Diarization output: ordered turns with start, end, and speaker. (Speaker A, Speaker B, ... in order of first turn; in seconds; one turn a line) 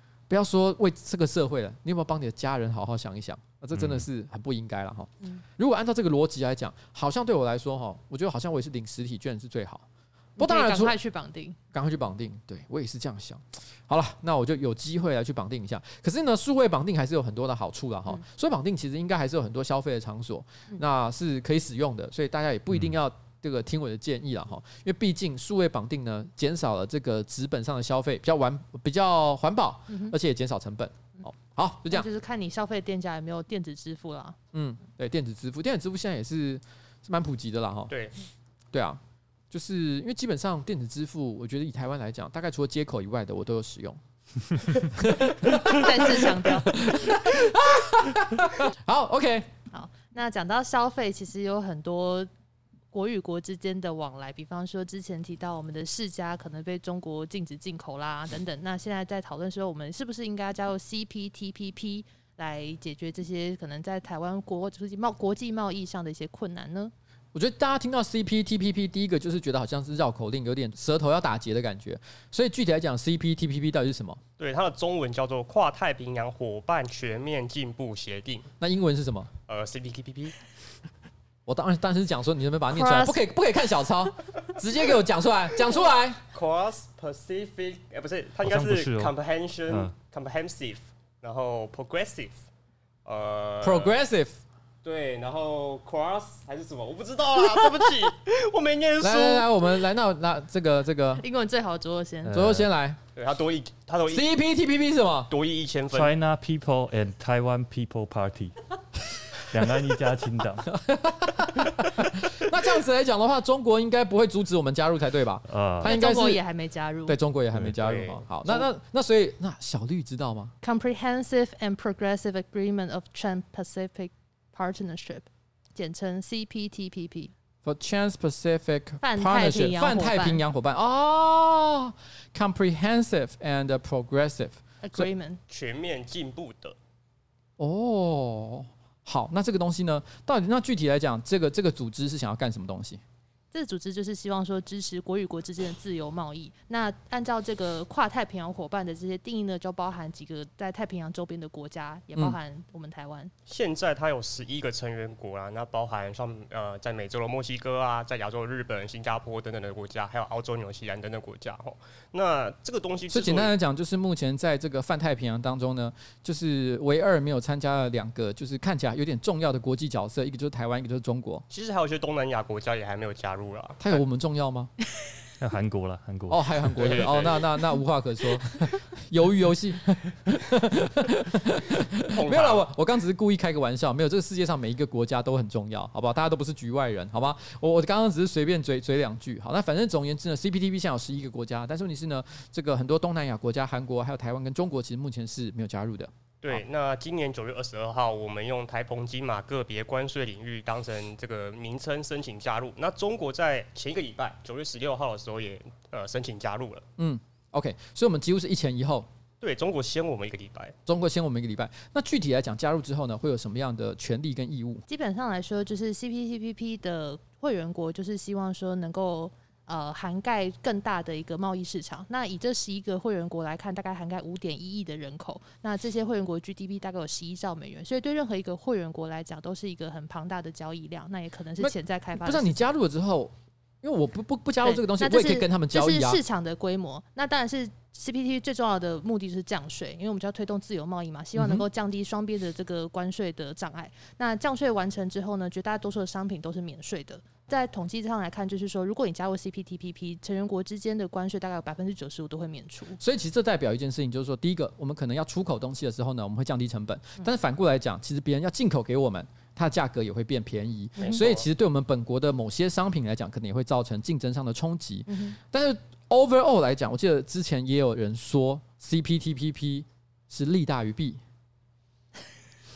Speaker A: 0.3-9.9
Speaker B: 3.7-4.0
Speaker C: 10.4-11.6
Speaker A: 10.4-10.9
Speaker A: 11.7-32.1
Speaker C: 29.9-30.1
Speaker C: 31.9-34.4
Speaker A: 34.5-37.9
Speaker D: 37.9-38.1
Speaker A: 38.7-44.0
Speaker A: 44.5-49.5
Speaker C: 45.5-46.8
Speaker C: 49.7-52.3
Speaker C: 52.9-66.9
Speaker A: 67.3-74.2
Speaker D: 74.4-78.5
Speaker A: 78.6-79.3
Speaker D: 79.5-80.3
Speaker A: 81.5-86.2
Speaker C: 82.7-83.2
Speaker D: 86.3-92.5
Speaker B: 88.4-89.1
Speaker D: 93.0-94.0
Speaker A: 93.6-94.4
Speaker D: 94.8-99.5
Speaker A: 99.0-101.2
Speaker C: 101.2-102.3
Speaker B: 102.2-102.7
Speaker A: 102.3-103.0
Speaker D: 103.1-104.3
Speaker A: 104.1-105.3
Speaker D: 105.3-106.1
Speaker B: 105.9-108.6
Speaker B: 109.3-110.7
Speaker A: 110.7-116.4
Speaker B: 115.5-115.9
Speaker C: 115.8-117.2
Speaker A: 117.0-120.5
Speaker D: 117.6-118.6
Speaker C: 120.6-127.3
Speaker A: 127.6-135.1
Speaker C: 129.0-130.4
Speaker C: 134.8-135.4
Speaker D: 135.5-136.8
Speaker A: 137.6-143.0
Speaker C: 143.5-153.3
Speaker D: 153.5-163.5
Speaker A: 163.1-171.4
Speaker D: 171.5-174.0
Speaker A: 173.8-174.7
Speaker B: 175.4-176.6
Speaker A: 176.3-196.6
Speaker D: 176.8-177.4
Speaker D: 182.1-182.6
Speaker D: 196.4-206.8
Speaker A: 207.0-209.1
Speaker D: 209.4-210.8
Speaker A: 210.8-214.8
Speaker C: 214.9-232.7
Speaker A: 231.6-236.2
Speaker C: 234.6-253.0
Speaker A: 241.3-241.7
Speaker A: 253.0-271.2
Speaker D: 261.0-261.4
Speaker C: 265.1-265.4